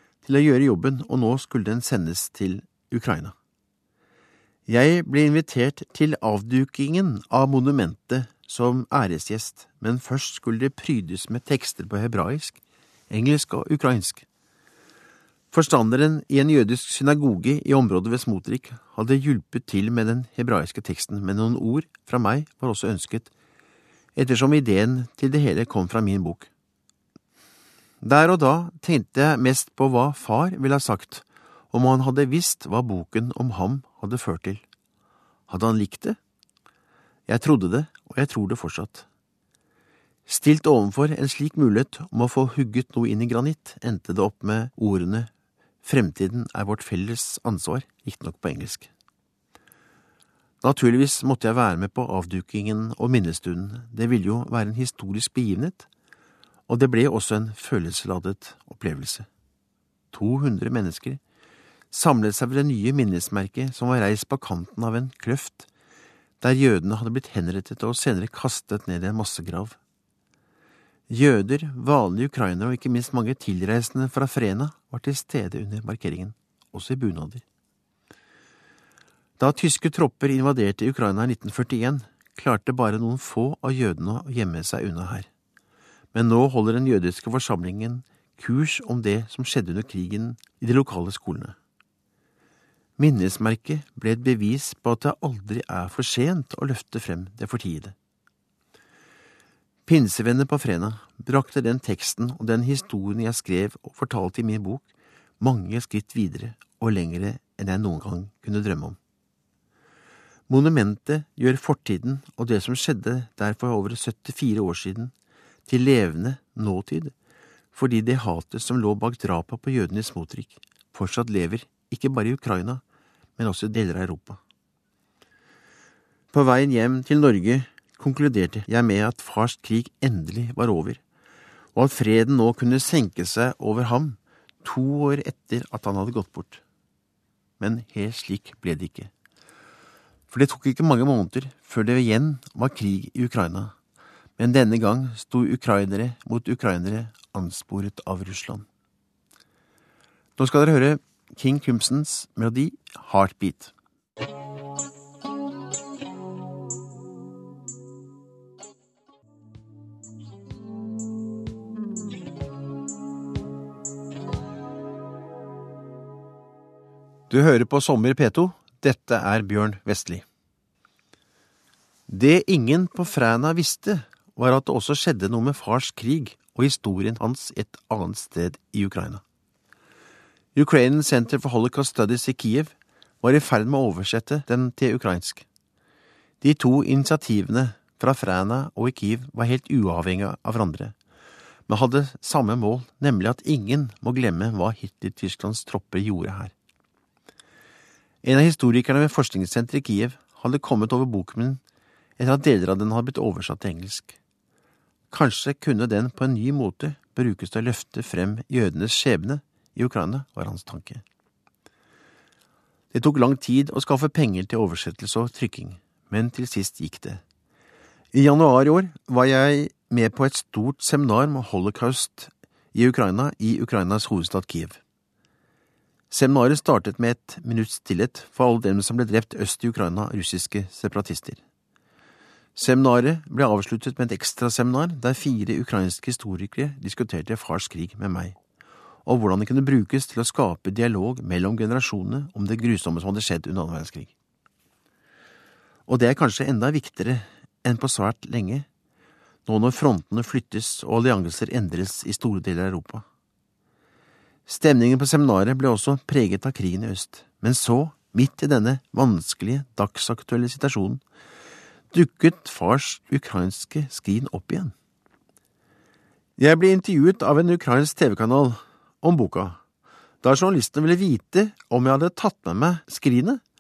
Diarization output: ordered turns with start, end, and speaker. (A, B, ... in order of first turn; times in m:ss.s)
0:00.2-0:03.4 A
0:04.7-0:14.3 A
0:15.5-0:23.3 A
0:24.2-0:26.5 A
0:28.0-0:34.6 A
0:35.5-0:36.2 A
0:37.3-0:39.1 A
0:40.3-0:45.3 A
0:45.8-0:48.9 A
0:50.6-0:55.9 A
0:56.7-0:59.3 A
1:00.1-1:01.2 A
1:01.9-1:05.7 A
1:06.4-1:09.8 A
1:11.1-1:17.4 A
1:19.4-1:25.3 A
1:26.1-1:31.6 A
1:33.0-1:38.0 A
1:39.9-1:44.9 A
1:45.4-1:49.0 A
1:50.5-1:55.1 A
1:55.7-1:57.1 A
1:57.7-2:02.8 A
2:03.4-2:04.4 A
2:06.3-2:11.0 A
2:11.8-2:16.6 A
2:17.6-2:19.1 A
2:20.3-2:23.7 A
2:24.4-2:28.7 A
2:30.4-2:33.7 A
2:47.3-2:50.2 A
2:52.1-2:59.2 A
3:00.6-3:05.5 A
3:06.4-3:11.0 A
3:11.7-3:16.5 A
3:18.2-3:21.6 A
3:22.2-3:24.2 A
3:25.1-3:31.0 A
3:32.9-3:37.2 A
3:38.1-3:44.8 A
3:46.1-3:51.4 A
3:52.6-3:58.4 A
3:59.1-4:04.1 A
4:05.9-4:08.7 A
4:09.5-4:13.0 A
4:14.5-4:21.0 A
4:21.9-4:24.7 A
4:26.4-4:29.6 A
4:30.2-4:33.4 A